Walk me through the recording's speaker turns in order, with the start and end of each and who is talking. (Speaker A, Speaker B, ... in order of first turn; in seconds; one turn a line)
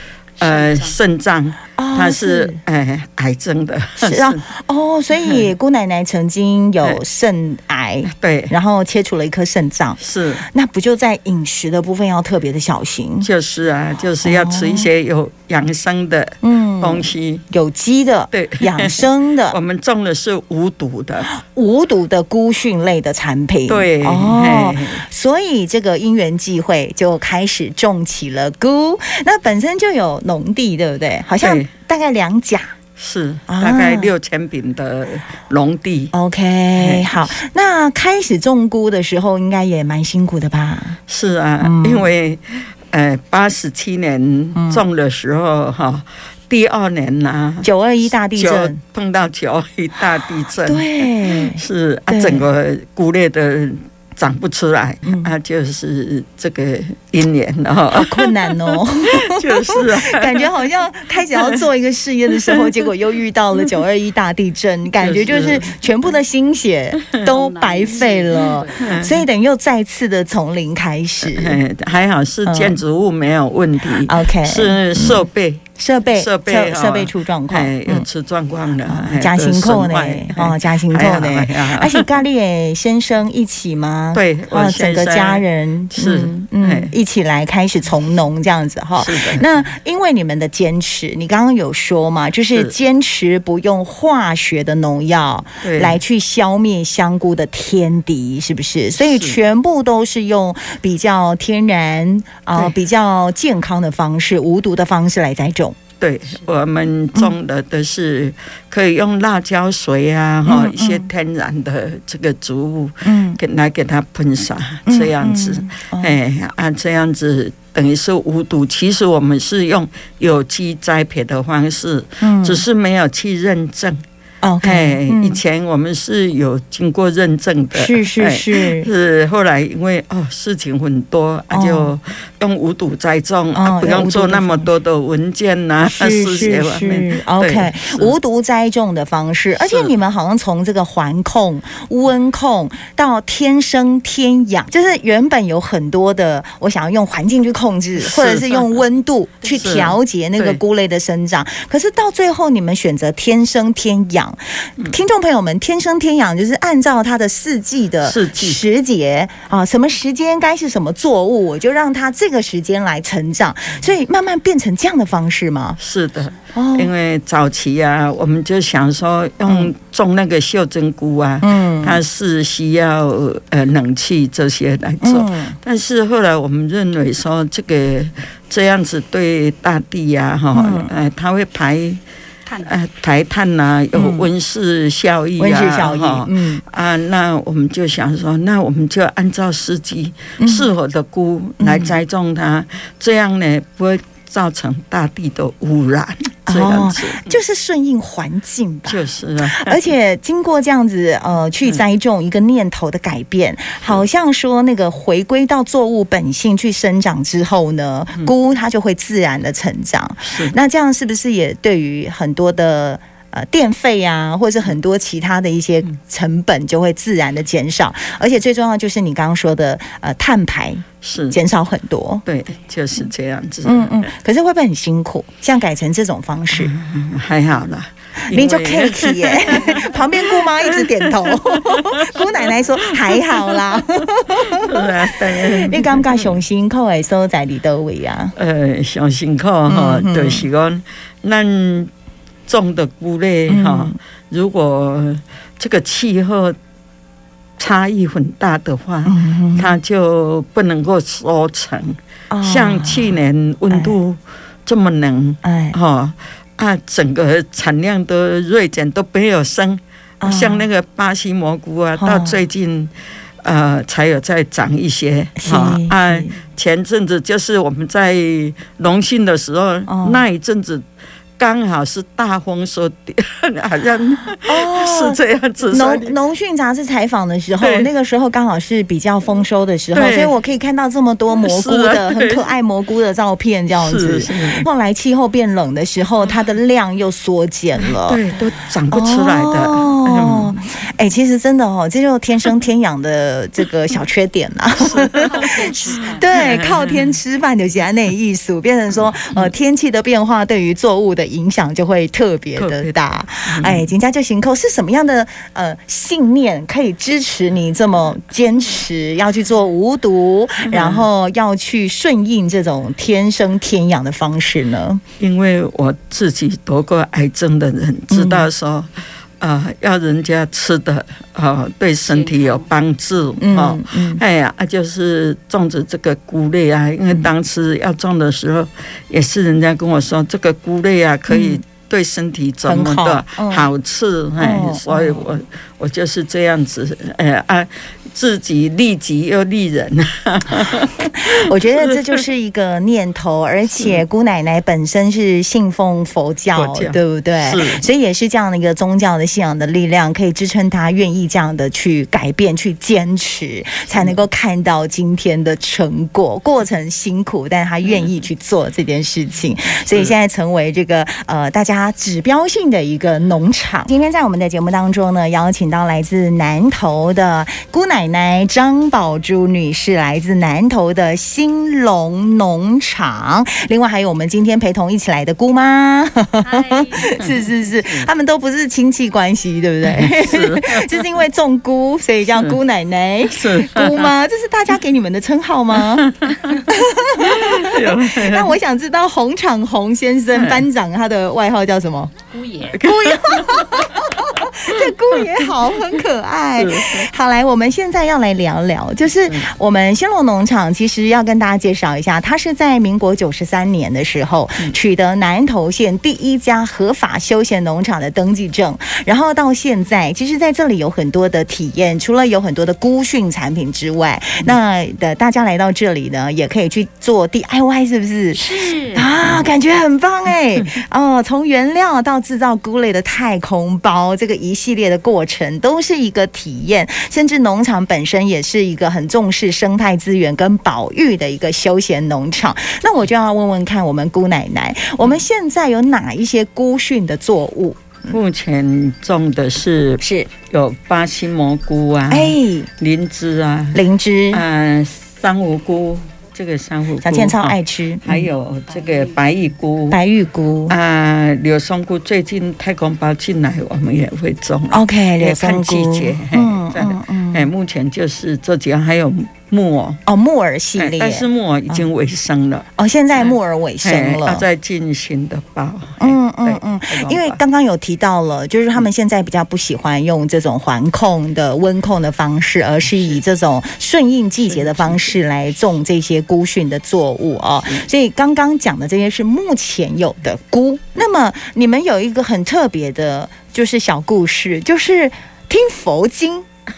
Speaker A: 0.4-0.9
Speaker B: 0.4-4.4
Speaker C: 1.8-2.6
Speaker C: 4.0-13.3
Speaker B: 5.2-5.5
Speaker B: 8.1-8.5
Speaker B: 10.0-10.4
Speaker B: 13.2-17.4
Speaker C: 14.2-14.9
Speaker C: 16.4-19.6
Speaker B: 18.3-21.3
Speaker C: 21.3-32.7
Speaker B: 23.7-25.0
Speaker B: 31.4-31.7
Speaker B: 33.0-36.1
Speaker C: 33.5-34.1
Speaker C: 36.1-41.0
Speaker B: 36.7-37.3
Speaker B: 41.1-47.7
Speaker C: 41.6-42.1
Speaker C: 44.5-44.8
Speaker C: 47.6-48.8
Speaker B: 48.3-61.6
Speaker C: 50.6-52.5
Speaker C: 55.0-55.3
Speaker C: 57.9-71.6
Speaker B: 62.3-62.8
Speaker B: 65.0-65.8
Speaker B: 67.0-67.2
Speaker A: 67.2-68.9
Speaker B: 68.7-69.2
Speaker B: 71.2-82.1
Speaker C: 72.5-72.8
Speaker C: 74.0-75.2
Speaker C: 75.8-78.0
Speaker C: 78.8-105.8
Speaker B: 84.1-86.9
Speaker B: 89.0-89.7
Speaker B: 95.6-96.0
Speaker B: 99.0-99.4
Speaker B: 106.0-124.0
Speaker C: 110.5-111.1
Speaker C: 113.0-113.4
Speaker C: 114.8-116.2
Speaker C: 122.2-122.6
Speaker C: 124.4-125.4
Speaker B: 124.6-138.1
Speaker C: 127.7-128.9
Speaker C: 131.5-131.9
Speaker C: 133.5-134.7
Speaker C: 135.8-165.8
Speaker B: 139.5-139.9
Speaker B: 147.9-148.8
Speaker B: 149.5-150.6
Speaker B: 158.0-158.6
Speaker B: 165.8-182.0
Speaker C: 166.5-166.9
Speaker C: 171.4-172.0
Speaker C: 175.0-175.6
Speaker C: 180.5-180.9
Speaker B: 182.6-197.4
Speaker C: 183.9-184.3
Speaker C: 185.4-186.6
Speaker C: 190.4-190.7
Speaker C: 191.6-191.9
Speaker C: 196.4-222.2
Speaker B: 198.9-199.8
Speaker B: 210.2-210.6
Speaker B: 221.0-221.4
Speaker B: 222.2-224.1
Speaker C: 223.6-226.7
Speaker B: 226.5-236.3
Speaker C: 228.2-238.3
Speaker B: 238.3-241.9
Speaker C: 239.7-240.4
Speaker B: 242.5-246.6
Speaker C: 243.5-243.9
Speaker B: 247.6-270.9
Speaker C: 249.1-249.7
Speaker C: 252.3-253.2
Speaker C: 255.4-255.7
Speaker C: 260.2-260.6
Speaker C: 262.0-262.4
Speaker C: 265.4-266.4
Speaker C: 269.9-270.2
Speaker B: 271.4-276.1
Speaker C: 274.4-288.2
Speaker B: 277.6-277.9
Speaker B: 279.9-280.3
Speaker B: 281.4-282.5
Speaker B: 283.7-284.7
Speaker B: 287.8-290.6
Speaker C: 288.9-315.0
Speaker B: 294.8-297.1
Speaker A: 295.2-296.4
Speaker B: 302.6-302.9
Speaker B: 303.4-303.9
Speaker B: 310.7-311.1
Speaker B: 315.2-342.2
Speaker C: 318.1-318.5
Speaker A: 322.0-322.7
Speaker C: 323.4-324.2
Speaker C: 331.3-331.6
Speaker C: 332.6-333.7
Speaker C: 334.4-335.3
Speaker C: 340.6-386.1
Speaker B: 343.8-344.0
Speaker B: 346.5-347.9
Speaker B: 353.9-354.2
Speaker B: 359.9-360.1
Speaker A: 376.4-377.5
Speaker B: 377.8-378.1
Speaker B: 379.8-381.2
Speaker B: 383.3-384.1
Speaker B: 385.7-386.6
Speaker C: 386.6-392.1
Speaker B: 387.2-388.6
Speaker B: 390.3-390.6
Speaker A: 392.3-392.8
Speaker B: 392.7-396.0
Speaker C: 392.8-438.1
Speaker B: 396.6-397.1
Speaker A: 418.3-419.1
Speaker B: 438.1-450.0
Speaker C: 440.0-440.3
Speaker C: 442.1-442.7
Speaker C: 443.7-444.4
Speaker C: 447.0-448.3
Speaker A: 448.7-449.2
Speaker C: 449.9-450.8
Speaker B: 450.7-460.0
Speaker C: 454.7-457.5
Speaker C: 460.1-461.8
Speaker B: 460.8-462.7
Speaker C: 462.8-464.4
Speaker B: 463.8-467.4
Speaker C: 466.0-486.5
Speaker B: 474.5-475.0